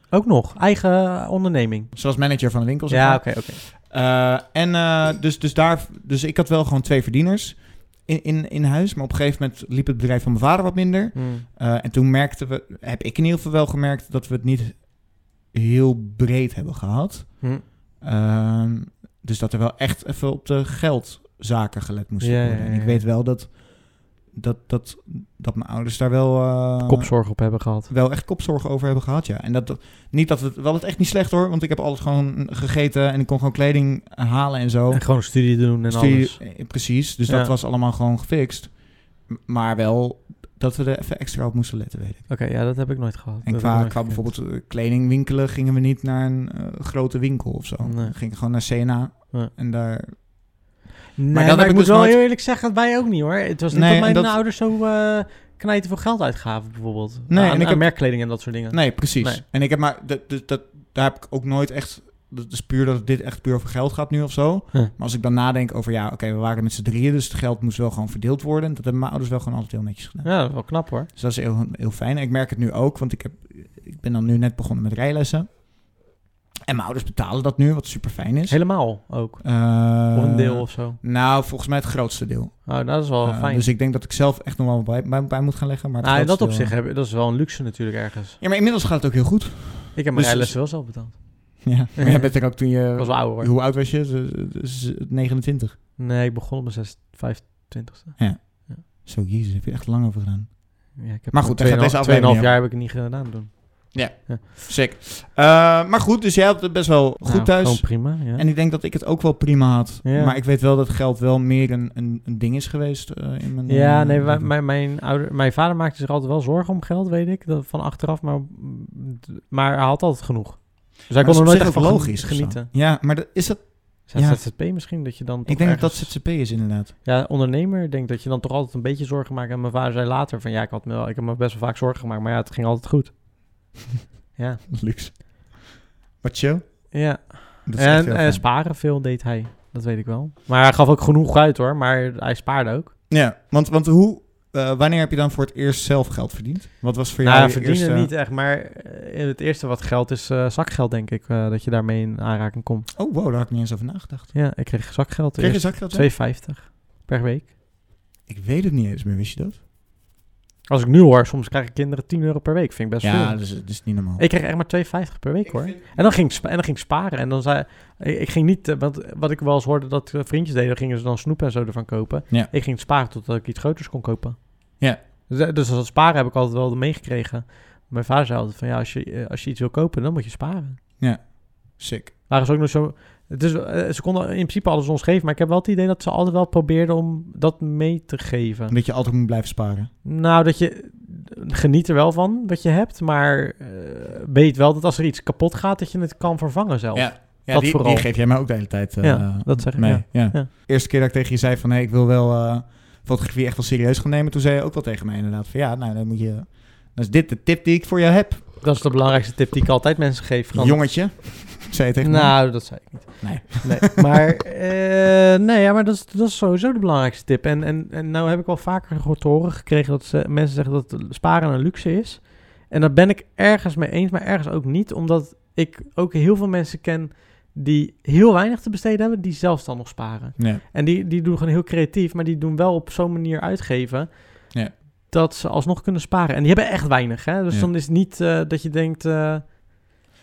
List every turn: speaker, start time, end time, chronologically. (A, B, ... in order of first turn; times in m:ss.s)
0:00.1-0:01.9 A
0:01.9-0:42.3 B
0:02.9-0:03.6 A
0:11.1-0:11.4 A
0:22.2-0:23.0 A
0:26.8-0:27.9 A
0:34.9-0:36.6 A
0:37.2-0:37.5 A
0:42.3-0:44.3 A
0:43.4-0:50.6 B
0:47.8-0:48.2 A
0:51.2-0:59.4 A
0:51.3-0:52.2 B
0:53.7-0:54.4 B
0:57.3-1:15.7 B
1:10.2-1:11.1 A
1:16.7-1:26.7 B
1:18.5-1:21.0 A
1:22.6-1:23.7 A
1:26.0-1:28.4 A
1:28.4-1:30.7 B
1:29.9-1:33.5 A
1:31.6-1:35.8 B
1:36.0-1:38.8 A
1:38.2-1:42.6 B
1:40.9-1:44.4 A
1:43.9-1:54.5 B
1:47.2-1:48.4 A
1:50.0-1:50.4 A
1:53.7-2:02.7 A
2:01.1-2:04.5 B
2:04.1-2:13.2 A
2:05.4-2:06.9 B
2:14.4-2:14.6 A
2:14.7-2:15.7 B
2:16.2-2:18.4 B
2:16.9-2:22.9 A
2:23.1-2:28.1 B
2:27.2-2:32.9 A
2:32.9-2:34.5 B
2:34.3-2:37.5 A
2:35.4-2:36.1 B
2:38.3-2:39.6 B
2:40.7-3:00.8 A
2:43.0-2:44.3 B
2:45.4-2:46.2 B
3:01.0-3:02.1 B
3:02.3-3:08.7 A
3:08.7-3:09.9 B
3:10.0-3:20.5 A
3:16.9-3:28.4 B
3:28.6-3:31.2 A
3:30.5-3:34.1 B
3:32.0-3:59.9 A
3:50.4-3:50.6 B